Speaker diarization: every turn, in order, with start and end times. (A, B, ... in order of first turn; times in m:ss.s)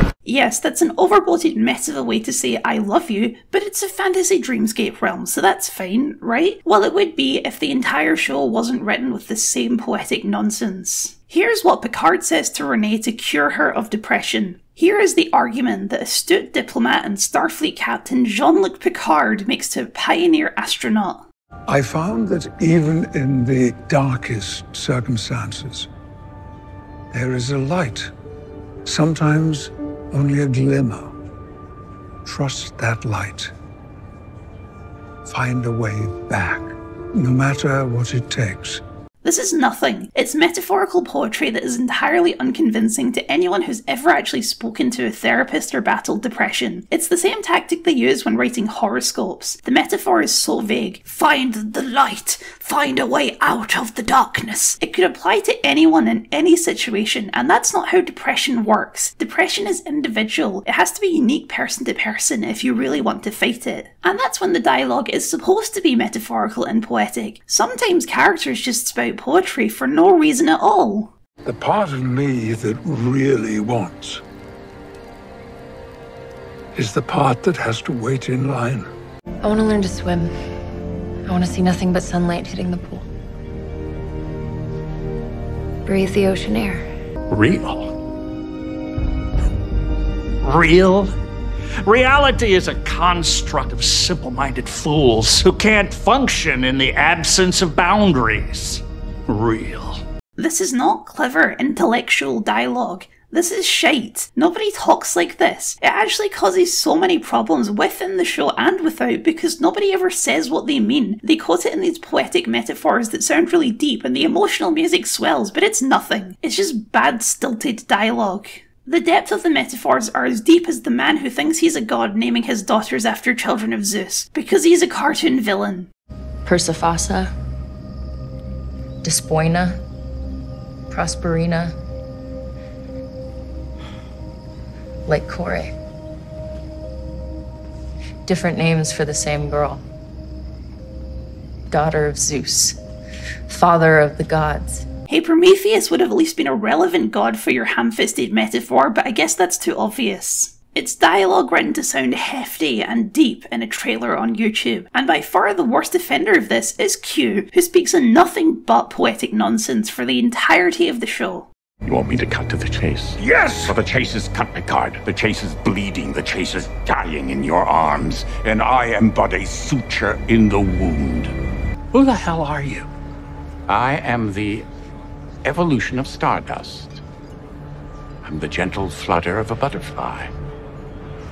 0:00.2-0:21.2 A
0:21.7-0:25.9 B
0:27.1-0:28.1 B
0:28.8-0:31.1 B
0:32.2-0:33.5 B
0:35.2-0:38.8 B
0:39.2-1:11.1 A
1:11.4-1:14.2 B
1:16.7-1:18.9 B
1:19.4-1:20.3 C
1:21.2-1:23.0 C
1:25.8-1:26.8 C
1:27.3-1:27.9 D
1:30.4-1:31.1 D
1:31.8-1:40.0 D
1:40.4-2:05.9 A
2:06.4-2:07.3 C
2:09.0-2:09.8 C
2:10.9-2:11.7 C
2:15.0-2:15.7 C
2:18.2-2:19.8 C
2:21.7-2:22.8 C
2:23.5-2:24.8 C
2:25.1-2:41.5 A
2:41.8-2:51.3 E
2:43.2-2:43.7 D
2:51.9-2:52.9 D
2:53.7-2:54.6 E
2:55.4-2:57.0 E
2:58.2-3:00.3 E